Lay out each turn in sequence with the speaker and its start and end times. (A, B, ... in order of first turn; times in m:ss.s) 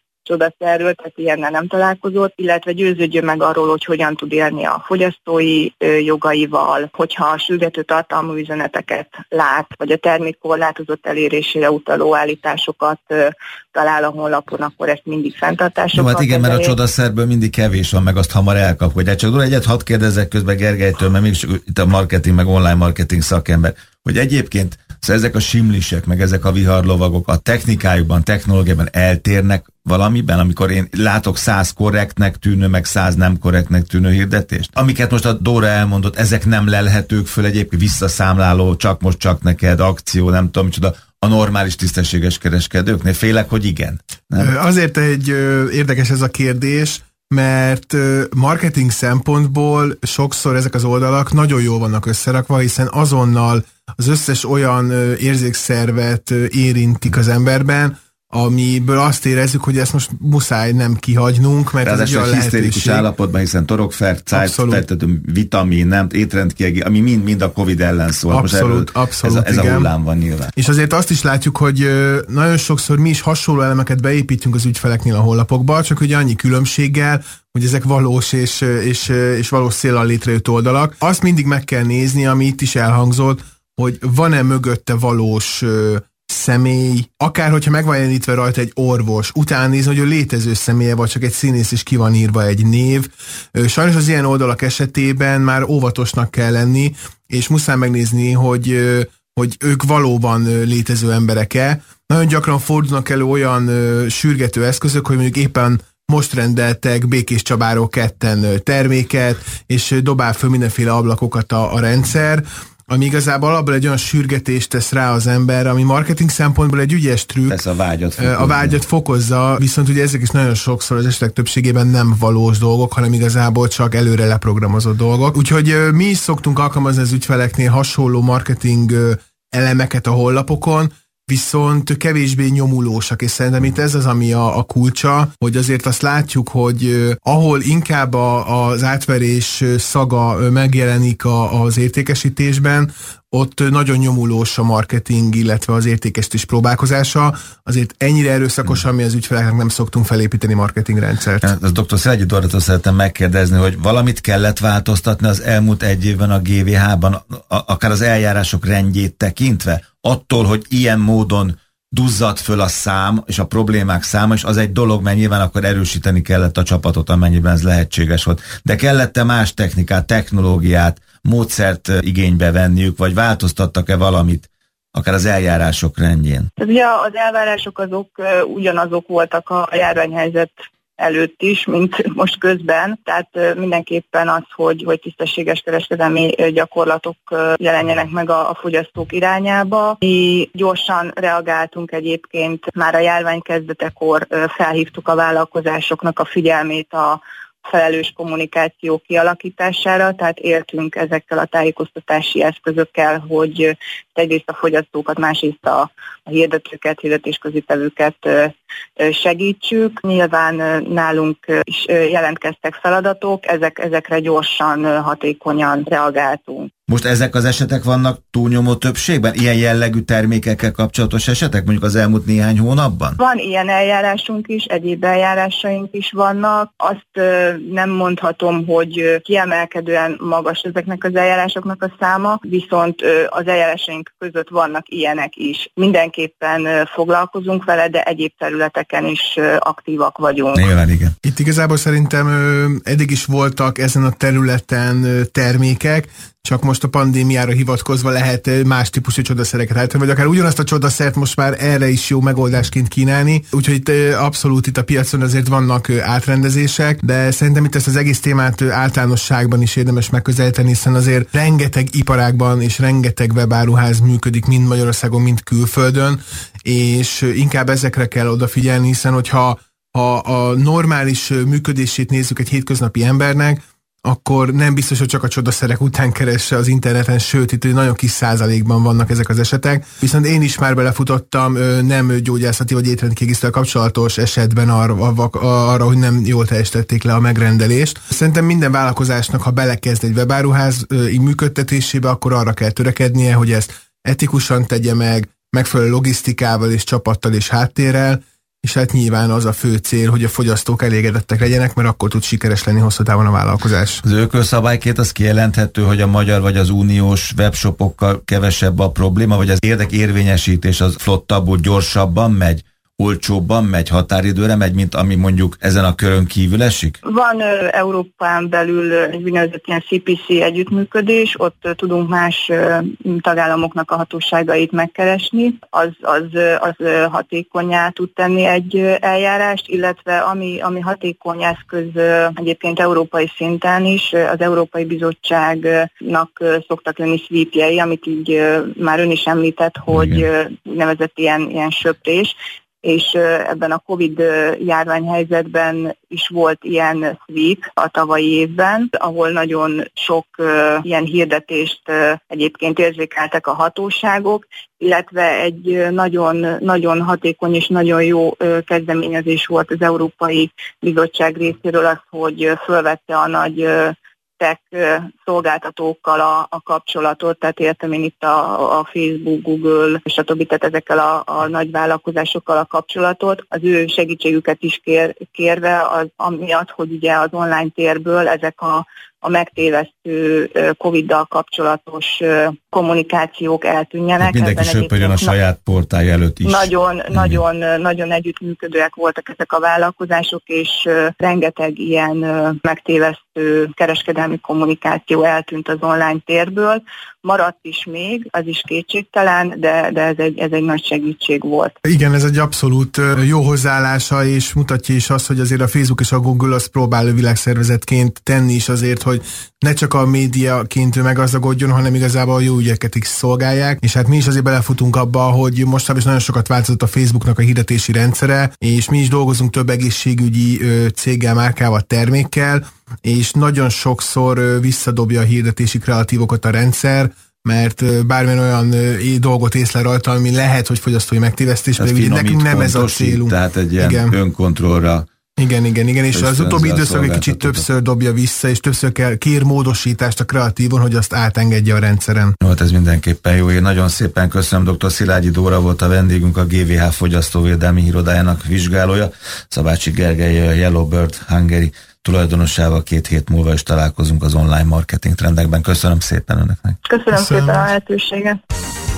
0:00.2-0:16.8 A
0:15.9-0:44.5 B
0:44.4-1:03.1 C
1:01.8-1:10.5 B
1:04.3-1:04.8 C
1:08.3-1:09.9 C
1:10.6-1:57.6 C
1:57.5-1:58.8 B
1:58.2-2:31.5 C
2:31.4-2:56.5 B
2:56.6-3:36.7 A
3:36.9-3:43.2 B
3:43.2-4:00.6 A
4:00.5-4:01.1 B
4:01.2-5:04.0 C
5:04.0-5:17.0 B
5:17.0-6:25.3 A
5:39.9-5:40.2 B
6:24.2-6:27.4 B
6:26.4-6:41.7 A
6:41.8-7:14.2 C
7:11.8-7:15.1 B
7:15.4-7:22.4 C
7:16.1-7:17.6 B
7:22.4-7:36.8 B
7:36.8-7:38.4 A
7:37.1-7:37.7 C